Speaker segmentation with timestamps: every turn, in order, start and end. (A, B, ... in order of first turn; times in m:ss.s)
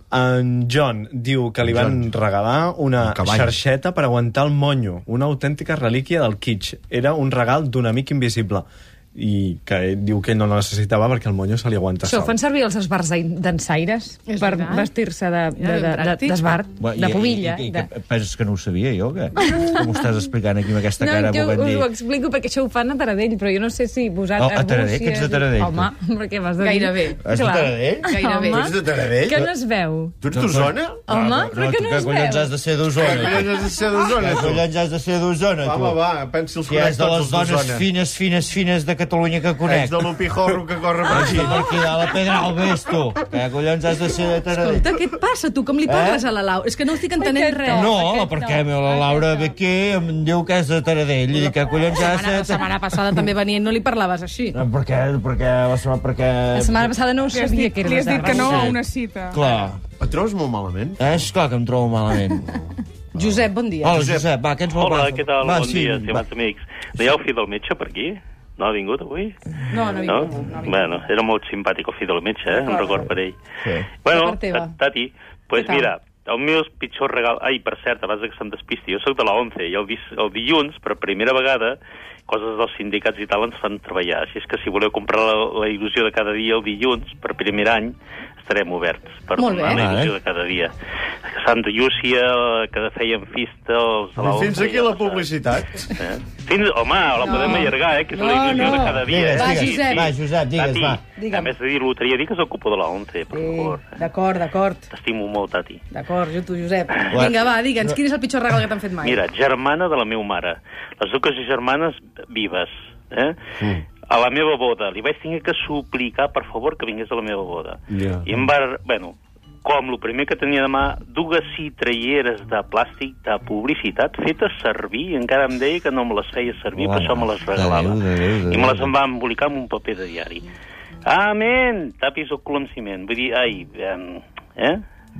0:00.1-0:12.4 A
0:01.6-0:02.1 B
0:03.0-0:03.6 B
0:12.0-0:17.8 C
0:14.2-0:14.9 D
0:15.5-0:16.5 D
0:16.8-0:21.9 E
0:19.5-0:19.9 C
0:21.0-0:30.1 C
0:24.4-0:25.9 E
0:26.6-0:27.2 D
0:27.2-0:28.1 E
0:28.0-0:28.7 D
0:28.5-0:29.5 B
0:30.2-0:31.0 B
0:30.3-0:36.0 E
0:31.1-0:32.5 C
0:32.9-0:34.6 B
0:35.6-0:37.8 B
0:36.6-0:40.1 E
0:39.6-0:41.7 B
0:41.1-0:44.9 E
0:44.5-0:48.0 D
0:45.8-0:46.2 E
0:47.2-0:49.4 C
0:47.7-0:52.7 E
0:51.3-0:54.6 D
0:54.5-0:57.0 E
0:56.5-0:58.8 C
0:57.3-0:59.5 F
0:58.2-0:58.8 E
0:59.3-0:59.8 E
1:00.0-1:01.0 B
1:01.0-1:02.5 E
1:03.1-1:04.1 D
1:03.8-1:06.2 E
1:04.7-1:09.3 G
1:09.7-1:11.1 D
1:10.0-1:13.3 G
1:12.5-1:13.1 D
1:13.6-1:13.9 E
1:14.0-1:21.8 G
1:14.1-1:14.8 D
1:15.5-1:15.9 D
1:22.3-1:30.7 G
1:29.4-1:29.8 D
1:29.7-1:30.1 E
1:31.3-1:35.3 G
1:34.2-1:35.8 B
1:35.8-1:43.9 G
1:37.2-1:40.1 D
1:38.6-1:41.0 E
1:41.2-1:41.5 D
1:43.3-1:44.9 D
1:44.9-1:45.8 G
1:45.9-1:49.2 D
1:47.1-1:48.0 E
1:49.0-1:53.4 G
1:54.1-2:10.4 G
1:57.9-1:58.4 B
2:06.7-2:08.9 E
2:11.0-2:14.8 G